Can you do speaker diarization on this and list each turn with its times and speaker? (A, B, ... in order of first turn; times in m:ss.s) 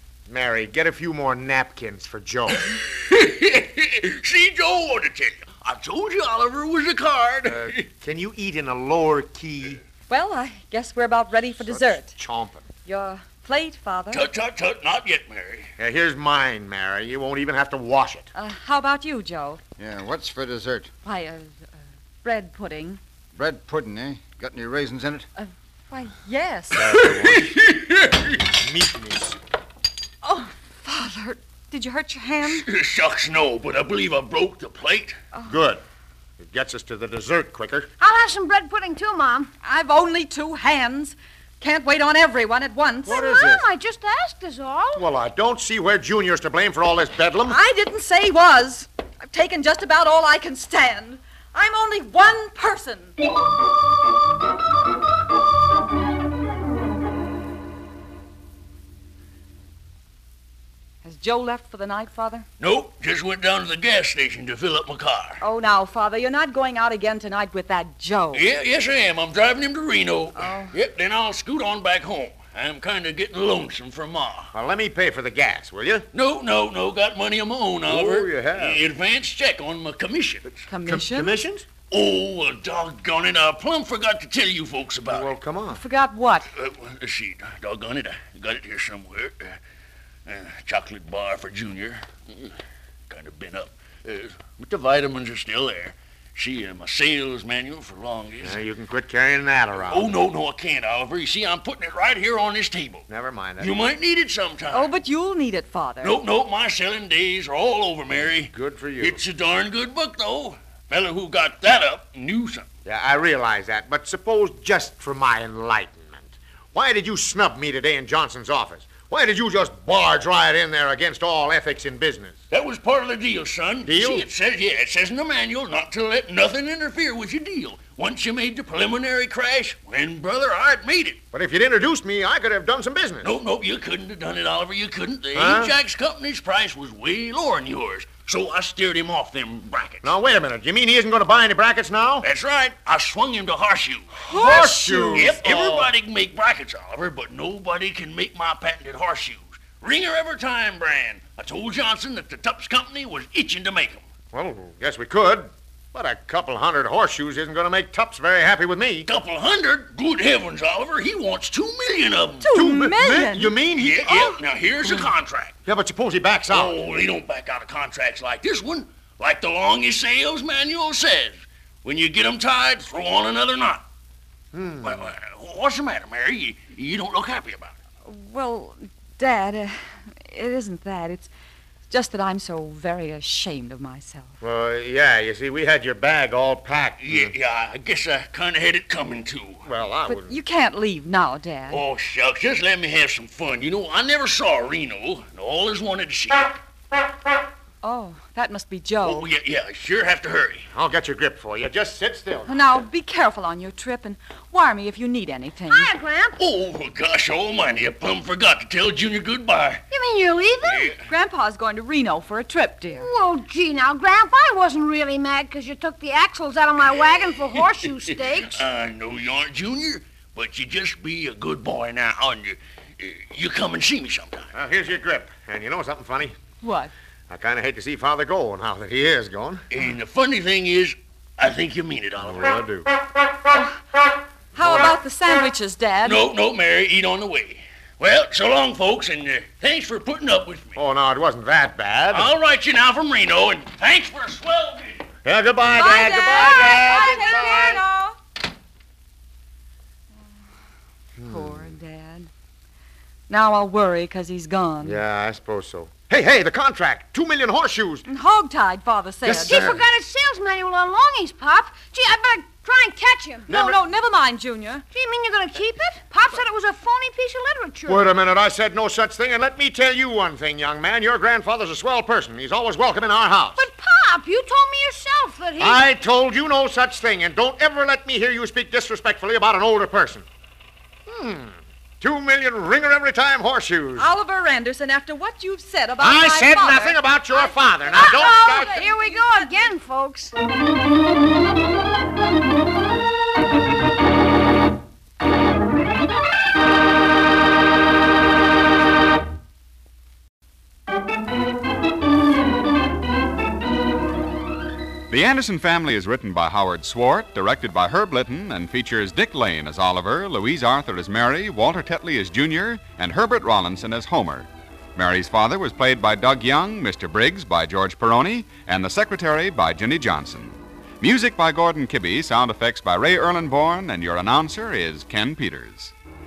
0:00.3-0:02.8 A
0:02.6-0:07.9 B
0:07.4-0:09.8 A
0:10.1-0:12.1 C
0:11.6-0:12.7 A
0:12.8-0:14.3 C
0:14.1-0:15.7 B
0:15.8-0:18.3 A
0:18.3-0:19.6 C
0:19.8-0:20.9 D
0:21.0-0:21.6 C
0:22.2-0:23.0 C
0:23.3-0:25.3 D
0:25.4-0:27.0 C
0:26.7-0:27.6 A
0:26.9-0:28.4 B
0:28.4-0:29.4 A
0:30.2-0:32.7 C
0:32.4-0:35.2 B
0:35.4-0:35.8 A
0:36.4-0:37.9 A
0:38.0-0:39.5 E
0:39.6-0:43.2 C
0:43.0-0:43.7 A
0:43.0-0:45.0 E
0:44.9-0:47.6 A
0:47.4-0:53.2 C
1:01.0-1:02.5 C
1:02.6-1:05.4 B
1:05.4-1:08.4 C
1:08.3-1:14.5 B
1:10.3-1:10.7 C
1:14.5-1:16.0 A
1:16.1-1:20.6 B
1:17.9-1:18.8 A
1:20.7-1:21.3 C
1:20.8-1:21.6 A
1:21.9-1:25.3 B
1:25.0-1:25.8 A
1:25.7-1:26.5 C
1:26.5-1:29.6 B
1:30.2-1:32.6 B
1:33.1-1:38.6 B
1:38.4-1:40.1 A
1:39.8-1:43.0 B
1:43.1-1:43.8 A
1:43.6-1:44.9 B
1:44.7-1:46.2 C
1:46.0-1:52.7 B
1:48.2-1:49.2 A
1:52.8-2:02.4 A
2:02.5-2:11.2 B
2:03.8-2:04.3 A
2:11.3-2:13.4 A
2:13.2-2:20.1 B
2:15.3-2:15.8 A
2:20.0-2:22.3 A
2:22.2-2:34.0 B
2:24.2-2:25.9 A
2:24.3-2:25.2 C
2:34.3-2:39.1 A
2:39.0-2:42.5 B
2:42.4-2:43.5 C
2:42.5-2:44.4 A
2:43.7-2:45.5 B
2:45.6-2:46.8 A
2:46.5-2:53.9 B
2:54.5-2:55.1 A
2:54.8-2:57.7 B
2:58.0-3:01.3 C
3:01.9-3:04.3 C
3:04.4-3:07.3 A
3:07.0-3:09.6 B
3:09.6-3:10.4 A
3:10.0-3:11.8 C
3:11.7-3:16.6 B
3:17.8-3:19.2 C
3:19.0-3:20.7 B
3:20.7-3:22.5 A
3:22.4-3:25.9 C
3:25.7-3:26.4 E
3:26.4-3:29.8 B
3:29.9-3:30.9 E
3:30.6-3:31.0 B
3:31.0-3:33.1 C
3:32.9-3:38.6 E
3:37.3-3:44.5 B
3:44.5-3:46.4 A
3:46.6-3:46.9 C
3:47.3-3:49.6 A
3:49.7-3:52.6 B
3:52.2-3:52.9 A
3:53.5-3:53.8 C
3:54.5-3:56.2 C
3:56.0-4:00.8 B
4:00.8-4:02.3 A
4:02.1-4:05.1 B
4:05.2-4:07.8 A
4:05.7-4:08.2 C
4:06.8-4:07.4 E
4:11.2-4:11.7 A
4:11.2-4:12.3 C
4:13.3-4:15.0 C
4:14.8-4:18.0 A
4:18.1-4:19.7 C
4:19.2-4:19.8 A
4:19.4-4:23.5 E
4:23.5-4:24.8 C
4:23.5-4:23.8 A
4:24.9-4:28.1 E
4:27.8-4:33.7 A
4:33.6-4:35.8 E
4:35.6-4:40.3 A
4:41.1-4:44.1 A
4:44.0-4:49.7 C
4:46.0-4:48.8 A
4:47.9-4:50.4 E
5:05.1-5:25.9 F